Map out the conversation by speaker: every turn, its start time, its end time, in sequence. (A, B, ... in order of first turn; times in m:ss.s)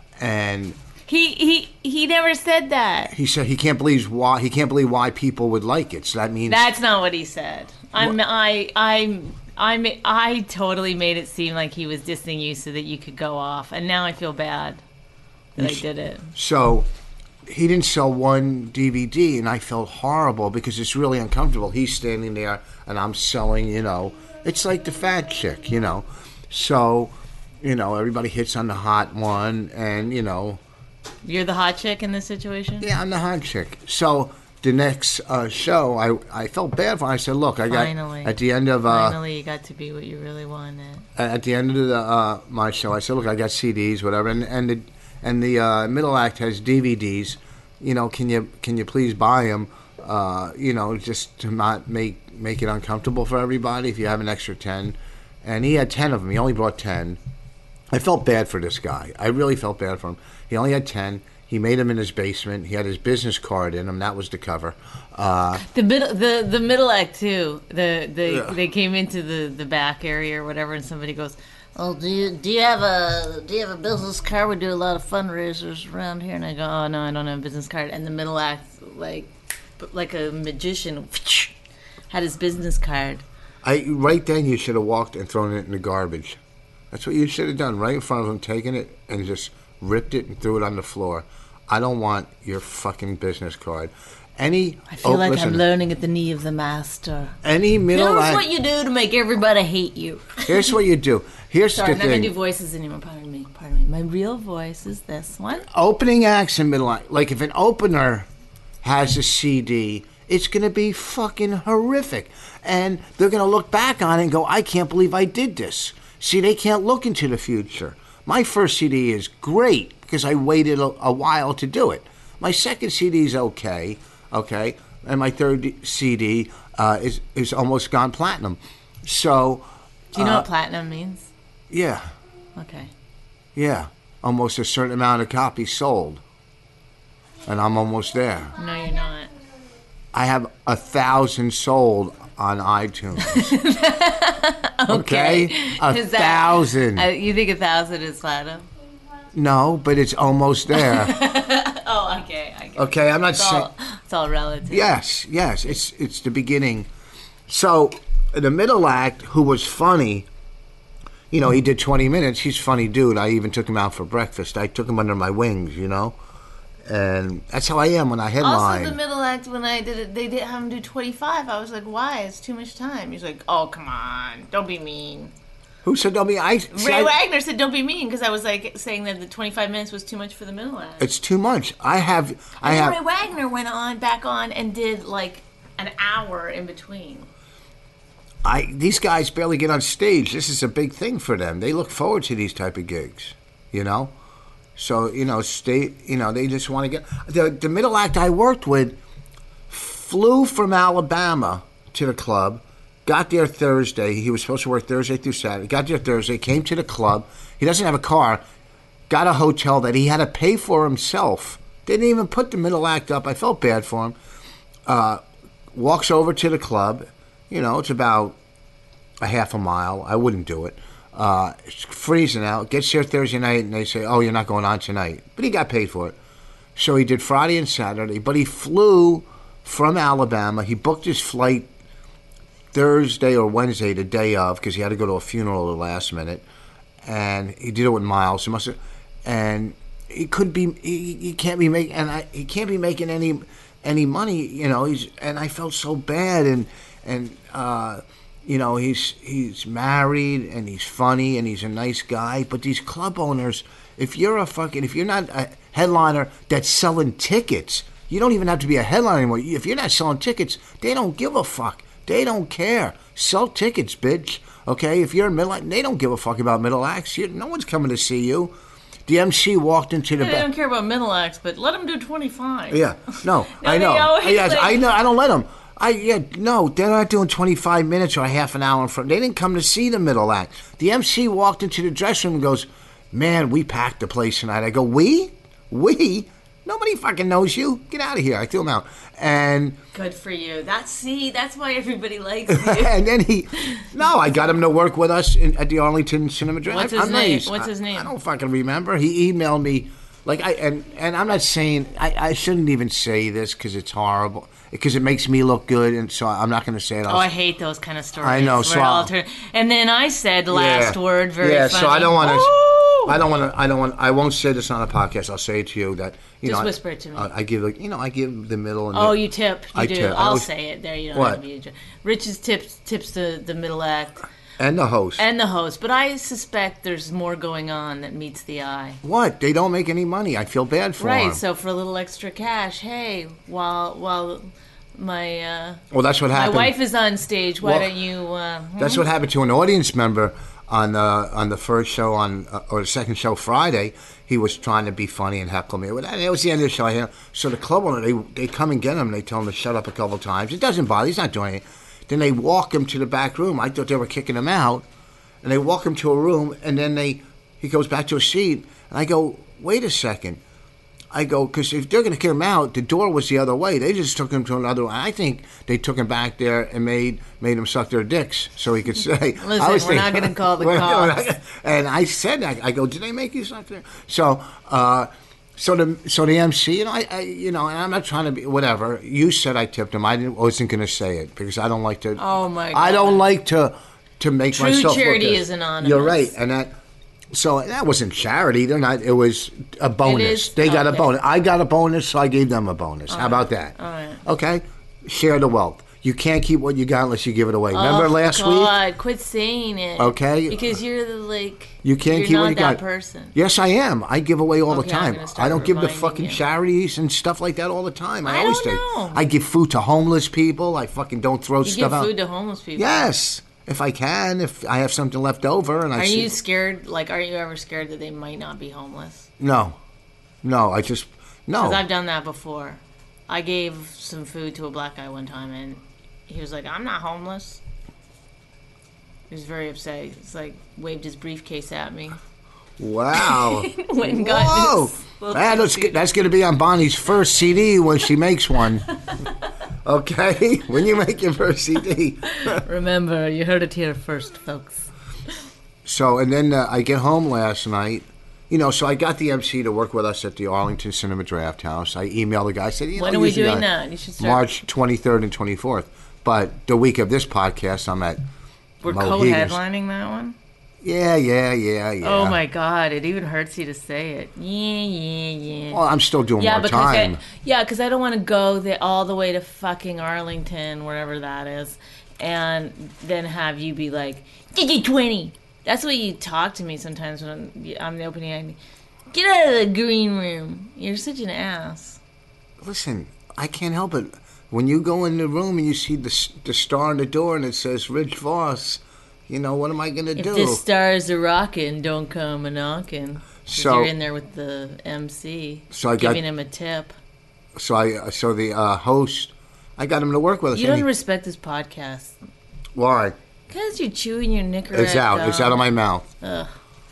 0:00.2-0:00.8 A
0:01.1-0:03.1 B
0:03.1-0:06.7 A
0:06.5-0:14.8 B
0:15.6-0:16.3 B
0:15.6-0:15.8 A
0:16.3-0:16.9 A
0:17.5-0:30.6 A
0:31.2-0:32.9 B
0:32.8-0:39.2 A
0:37.7-0:41.1 B
0:41.2-0:57.2 A
0:57.9-1:05.6 A
1:05.6-1:21.5 B
1:08.3-1:08.6 A
1:22.1-1:23.2 B
1:23.6-1:26.4 A
1:26.9-1:35.6 A
1:34.9-1:37.4 B
1:37.4-1:38.4 A
1:37.9-1:40.7 B
1:40.5-1:42.3 A
1:41.7-1:45.7 B
1:45.7-1:48.3 A
1:48.8-2:10.5 A
2:10.2-2:11.3 B
2:11.7-2:12.1 A
2:12.6-2:12.9 B
2:13.6-2:16.2 A
2:17.5-2:18.6 A
2:18.6-2:19.3 B
2:20.1-2:23.6 A
2:23.2-2:28.6 B
2:24.9-2:27.1 A
2:29.3-2:31.2 A
2:30.7-2:35.0 B
2:32.8-2:33.7 A
2:34.7-2:36.9 A
2:37.5-2:40.3 A
2:41.3-2:46.2 A
2:46.9-2:49.0 A
2:48.4-2:55.3 B
2:55.8-2:57.1 A
2:56.7-3:01.1 B
3:01.0-3:03.0 A
3:02.6-3:07.3 B
3:08.4-3:14.1 A
3:14.8-3:19.0 A
3:19.7-3:28.4 A
3:29.1-3:34.2 A
3:34.9-3:35.2 A
3:35.7-3:38.4 A
3:39.2-3:46.2 A
3:46.8-3:51.7 A
3:52.7-3:56.4 A
3:57.0-4:28.5 A
4:29.1-4:30.5 A
4:30.2-4:34.9 B
4:32.7-4:49.8 A
4:49.9-4:53.0 B
4:52.5-5:07.3 A
4:56.7-4:58.1 B
5:07.1-5:13.2 B
5:08.2-5:09.1 A
5:10.5-5:19.2 A
5:16.4-5:17.3 B
5:18.9-5:24.2 B
5:19.7-5:20.5 A
5:21.1-5:21.4 A
5:24.6-5:25.2 A
5:25.2-5:29.0 B
5:29.0-5:31.4 A
5:31.0-5:39.0 B
5:35.9-5:36.8 A
5:37.6-5:37.9 A
5:38.8-5:54.8 A
5:55.4-6:00.4 A
6:01.1-6:22.2 A
6:09.4-6:11.2 B
6:22.2-6:23.3 B
6:22.7-6:26.8 A
6:24.5-6:26.3 B
6:27.3-6:33.7 A
6:30.0-6:31.1 B
6:33.1-6:34.2 B
6:34.2-6:38.8 A
6:37.7-6:43.4 B
6:40.0-6:40.8 A
6:41.8-6:42.8 A
6:43.3-6:52.1 A
6:44.7-6:46.4 B
6:48.2-6:49.2 B
6:51.6-6:53.1 B
6:52.8-6:56.4 A
6:56.0-6:59.3 B
6:59.4-6:59.8 A
7:00.4-7:01.8 A
7:01.6-7:07.6 B
7:09.3-7:12.2 B
7:12.8-7:18.9 A
7:13.1-7:16.0 B
7:19.8-7:22.6 A
7:22.4-7:24.9 B
7:25.8-7:33.7 A
7:33.0-7:34.5 B
7:34.2-7:38.2 A
7:38.8-7:40.4 B
7:38.8-7:39.6 A
7:40.8-7:42.4 A
7:42.0-7:45.8 B
7:45.7-7:47.2 A
7:46.4-7:58.6 B
7:59.1-8:02.0 B
8:02.6-8:10.6 A
8:10.2-8:16.9 B
8:13.5-8:13.9 A
8:15.7-8:16.2 A
8:17.6-8:20.9 A
8:20.5-8:22.2 B
8:22.8-8:23.2 A
8:23.5-8:26.5 B
8:24.7-8:26.1 A